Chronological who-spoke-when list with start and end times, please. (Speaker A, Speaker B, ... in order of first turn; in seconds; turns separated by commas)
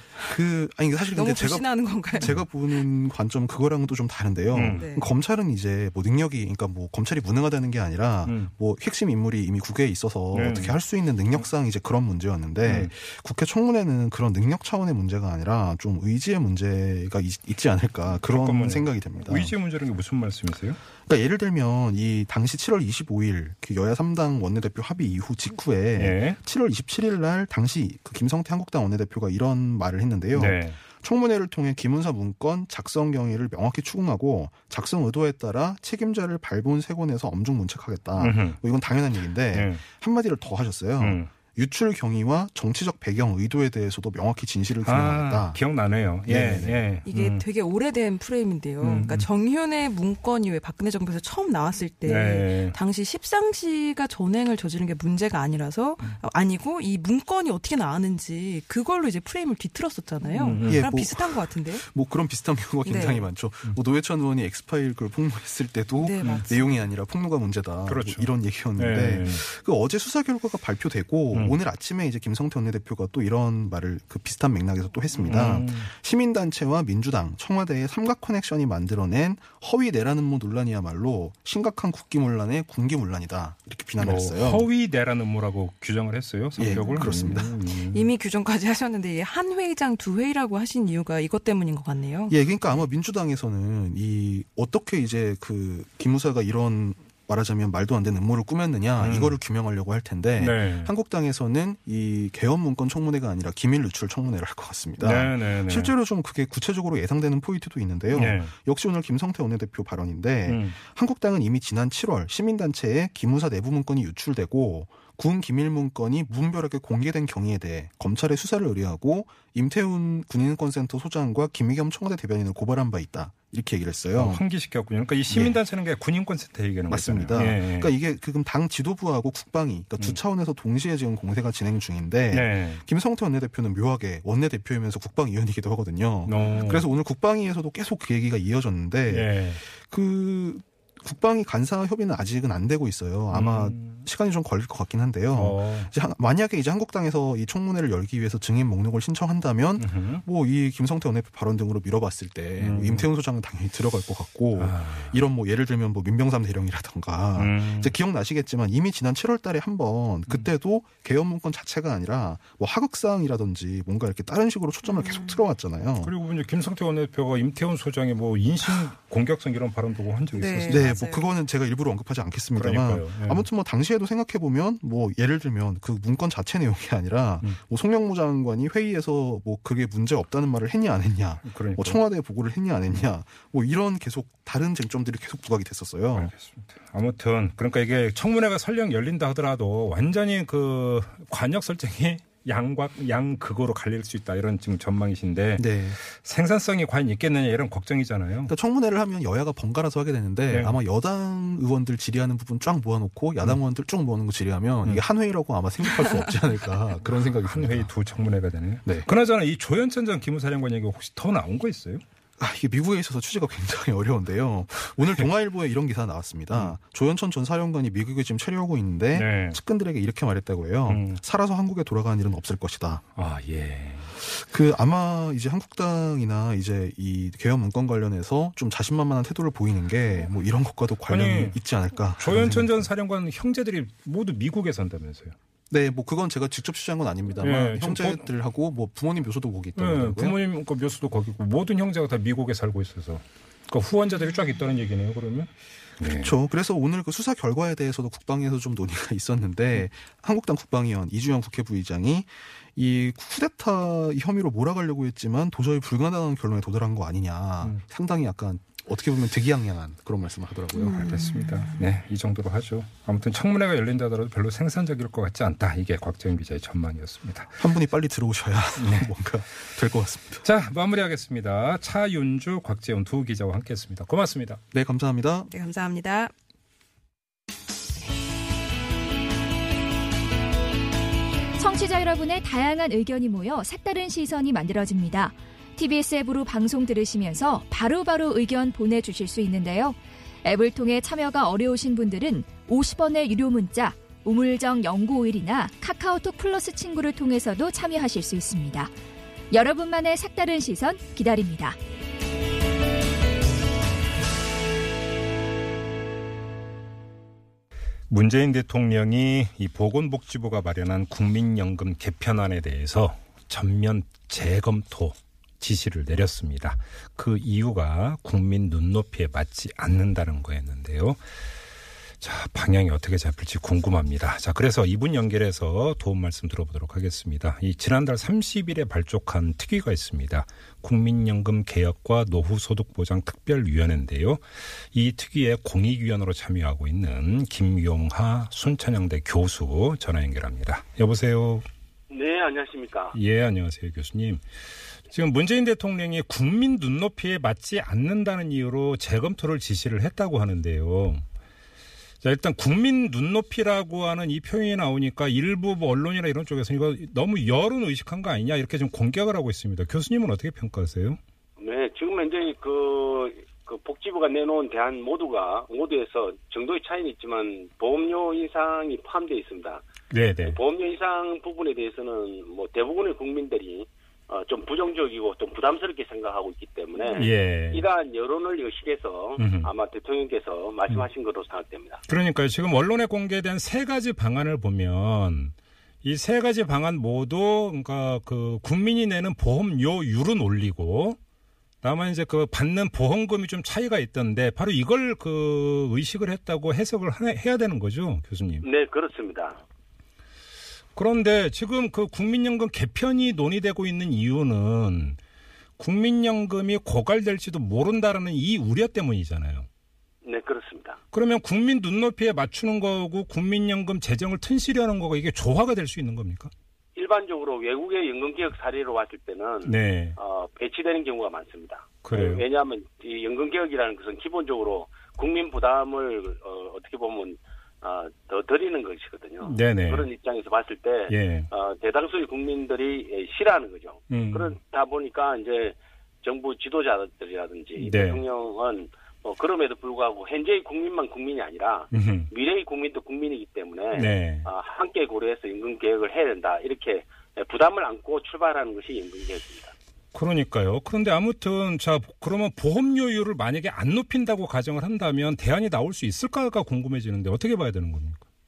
Speaker A: 0.2-19.5, Speaker B: 1.1-2.4, Speaker C: 4.5-4.9, Speaker B: 4.7-5.1, Speaker C: 8.2-8.5, Speaker C: 10.3-10.8, Speaker C: 12.7-12.9, Speaker C: 18.3-20.8, Speaker A: 21.1-45.6, Speaker C: 26.0-26.4, Speaker C: 30.4-30.8, Speaker C: 38.2-38.6, Speaker C: 39.5-39.8, Speaker C: 41.0-41.3, Speaker C: 44.9-47.4, Speaker A: 46.3-46.8, Speaker B: 47.1-61.9, Speaker C: 48.8-49.3, Speaker C: 52.1-52.8, Speaker C: 60.3-60.9, Speaker A: 60.6-84.7, Speaker B: 62.9-63.2, Speaker B: 66.0-66.6, Speaker C: 67.9-69.4, Speaker C: 75.1-75.9, Speaker C: 84.0-88.1, Speaker A: 86.6-87.5, Speaker B: 86.8-92.3, Speaker A: 92.3-124.4, Speaker C: 99.0-99.4, Speaker C: 100.4-100.9, Speaker C: 105.0-105.9, Speaker C: 108.1-108.5, Speaker C: 110.5-110.8, Speaker C: 124.2-127.9, Speaker A: 125.3-125.6, Speaker A: 126.9-166.1, Speaker C: 132.3-132.8, Speaker C: 136.3-136.9, Speaker C: 139.1-139.6, Speaker C: 143.3-144.1, Speaker C: 145.3-145.9, Speaker C: 149.8-150.2, Speaker C: 152.6-153.1, Speaker C: 154.6-155.2, Speaker C: 157.4-157.9, Speaker B: 164.9-165.4, Speaker C: 166.0-171.0, Speaker B: 170.3-171.3, Speaker A: 170.7-186.3, Speaker C: 172.6-173.4, Speaker C: 181.4-182.0, Speaker C: 186.2-198.5, Speaker A: 195.6-196.0, Speaker A: 198.5-207.9, Speaker C: 200.5-200.8, Speaker C: 207.4-212.0, Speaker A: 212.4-223.0, Speaker C: 219.2-219.6, Speaker C: 220.9-221.2, Speaker C: 223.2-224.1, Speaker A: 224.2-232.9, Speaker C: 231.1-231.6, Speaker C: 232.2-235.3, Speaker A: 235.7-240.4, Speaker C: 237.4-238.2, Speaker C: 239.8-246.3, Speaker A: 246.0-261.2, Speaker C: 260.9-267.6, Speaker B: 261.2-261.6, Speaker A: 267.6-270.4, Speaker C: 268.8-269.1, Speaker C: 270.4-274.6, Speaker A: 274.7-275.5, Speaker B: 275.5-276.3, Speaker D: 281.6-298.9, Speaker D: 299.5-301.8, Speaker C: 308.1-321.2, Speaker C: 322.2-341.6, Speaker E: 342.1-343.2, Speaker C: 343.1-344.4, Speaker C: 345.1-351.2, Speaker C: 352.2-361.2, Speaker E: 361.6-369.9, Speaker C: 370.1-370.6, Speaker E: 370.4-382.0, Speaker C: 377.1-377.9, Speaker C: 379.4-379.7, Speaker C: 382.1-391.2, Speaker C: 391.8-398.7, Speaker E: 398.6-399.6, Speaker C: 400.9-405.2, Speaker C: 405.8-409.7, Speaker E: 410.2-411.0, Speaker C: 411.1-416.5, Speaker E: 417.0-449.7, Speaker C: 419.6-420.2, Speaker C: 422.0-422.4, Speaker C: 429.4-430.1, Speaker C: 431.1-431.5, Speaker C: 434.1-434.6, Speaker C: 437.8-438.2, Speaker C: 441.9-442.3, Speaker C: 443.9-444.5, Speaker C: 450.1-458.2